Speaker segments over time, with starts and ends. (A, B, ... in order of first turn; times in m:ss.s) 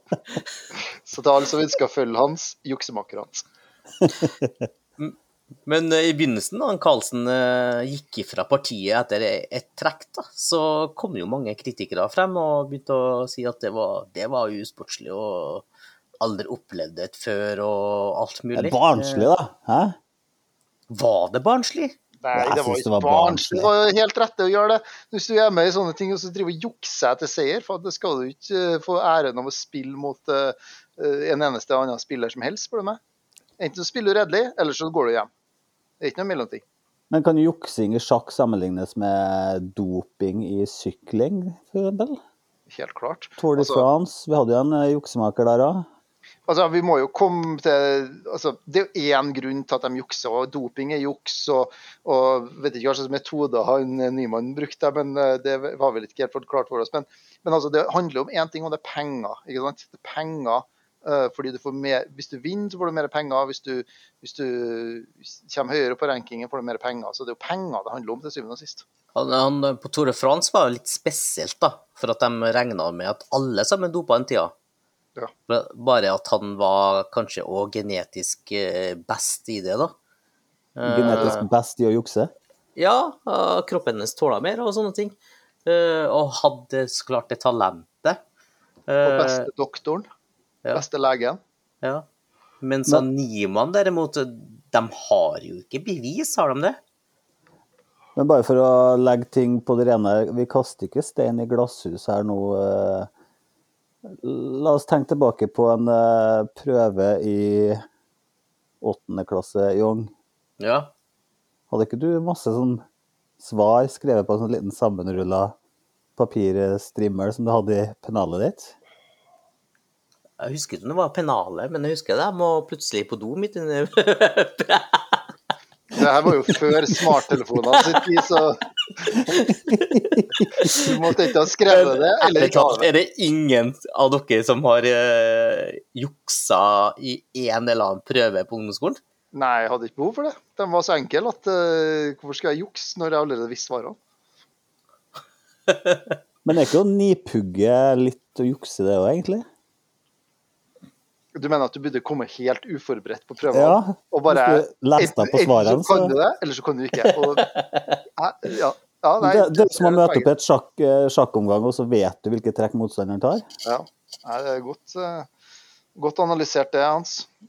0:01.0-0:03.4 A
0:04.2-0:04.5 B
0:05.0-0:15.6 C
0:16.2-0:19.3 C
0:18.5-0:20.0 B
0:20.9-0:22.0 C
0:22.2-0:33.0 A
0:22.3-0:23.7 B
0:33.6-0:35.3 A
0:36.0-0:36.6 A
0:37.1-0:42.2 B
0:42.7-0:43.8 A
0:43.4-0:45.8 B
0:46.5-1:08.8 A
1:09.1-1:14.5 C
1:15.5-1:19.9 C
1:20.8-1:21.4 C
1:20.8-1:22.3 B
1:22.8-1:25.1 C
1:25.6-1:28.2 C
1:28.9-1:29.5 C
1:29.0-1:30.1 A
1:30.7-1:31.4 A
1:32.6-1:36.8 C
1:38.2-1:43.1 B
1:44.1-1:47.8 B
1:48.8-1:50.1 B
1:50.6-1:50.9 C
1:51.7-1:52.8 B
1:53.4-1:55.5 B
1:56.2-1:58.7 B
2:00.4-2:05.2 C
2:05.9-2:09.2 A
2:07.6-2:08.1 C
2:09.3-2:10.9 C
2:09.7-2:10.7 B
2:10.6-2:12.9 A
2:11.7-2:19.0 C
2:19.3-2:24.0 A
2:25.7-2:26.2 C
2:26.4-2:29.4 B
2:31.3-2:37.6 A
2:33.5-2:36.1 B
2:37.0-2:38.0 C
2:38.2-2:40.3 A
2:39.2-2:43.4 B
2:43.6-2:45.3 A
2:46.0-2:47.3 A